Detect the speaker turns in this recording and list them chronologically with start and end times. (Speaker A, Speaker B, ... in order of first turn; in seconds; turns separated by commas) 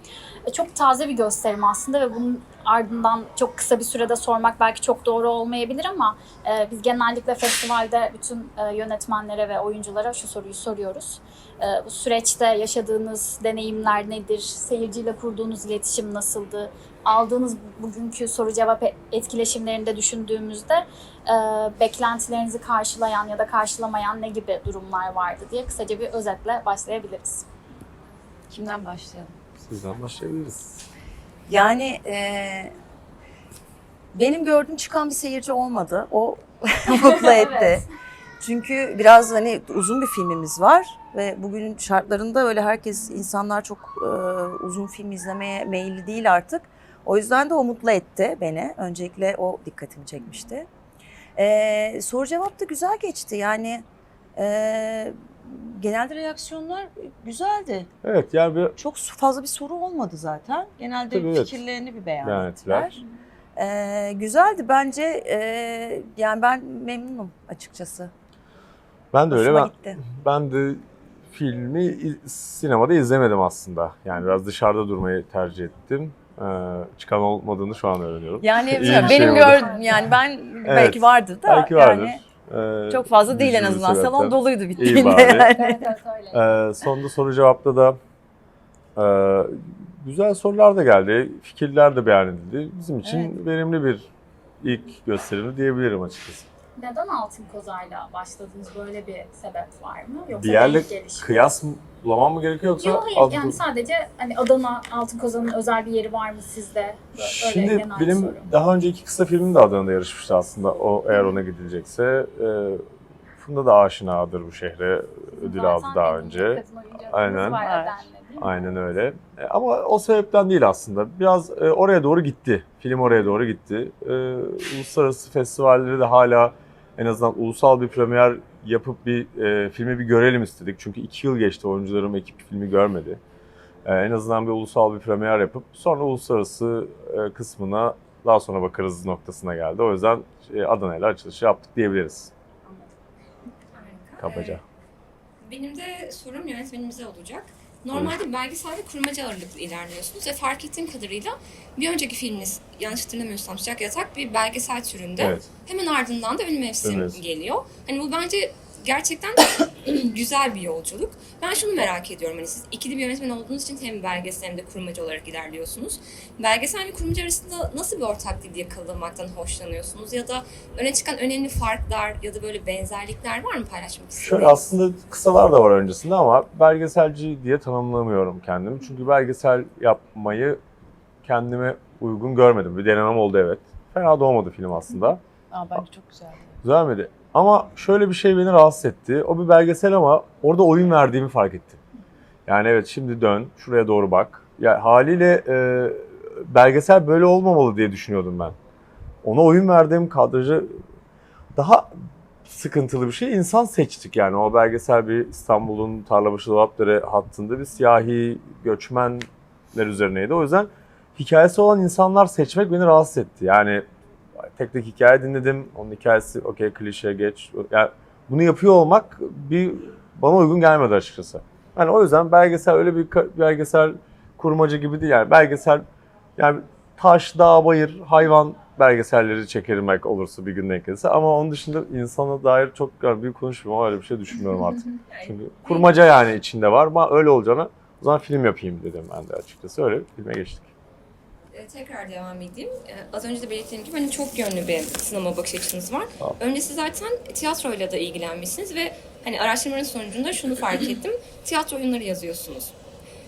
Speaker A: 0.5-27.5, Speaker B: 28.5-29.4, Speaker C: 29.6-30.8, Speaker B: 31.5-32.7, Speaker B: 34.1-37.9, Speaker A: 37.1-37.9, Speaker B: 38.4-50.7, Speaker B: 51.4-53.8, Speaker B: 54.4-57.9, Speaker C: 58.0-58.8, Speaker B: 58.8-63.0, Speaker C: 61.1-61.5, Speaker C: 62.2-63.0, Speaker B: 63.6-68.1, Speaker C: 69.1-79.8, Speaker B: 69.3-70.0, Speaker B: 78.4-82.2, Speaker A: 78.9-80.1, Speaker C: 80.7-85.5, Speaker B: 82.9-85.9, Speaker A: 84.8-86.5, Speaker C: 86.3-88.0, Speaker C: 89.0-94.1, Speaker B: 93.0-93.3, Speaker C: 94.6-96.5, Speaker A: 96.8-101.5, Speaker C: 100.3-103.6, Speaker A: 102.8-108.4, Speaker C: 107.2-112.8, Speaker C: 113.4-117.6, Speaker A: 115.4-118.6, Speaker B: 117.3-118.0, Speaker C: 118.4-133.2, Speaker C: 133.8-142.3, Speaker D: 143.7-144.6, Speaker C: 144.2-144.6, Speaker D: 145.4-174.6, Speaker C: 155.2-155.5, Speaker C: 156.8-157.2, Speaker C: 174.2-180.6, Speaker C: 181.2-185.2, Speaker B: 185.5-186.6, Speaker C: 186.6-191.8, Speaker C: 192.5-198.6, Speaker C: 199.2-200.8, Speaker C: 201.6-201.9, Speaker C: 202.5-213.8, Speaker C: 214.6-225.8, Speaker C: 226.4-240.7, Speaker D: 235.1-236.0, Speaker D: 241.5-252.8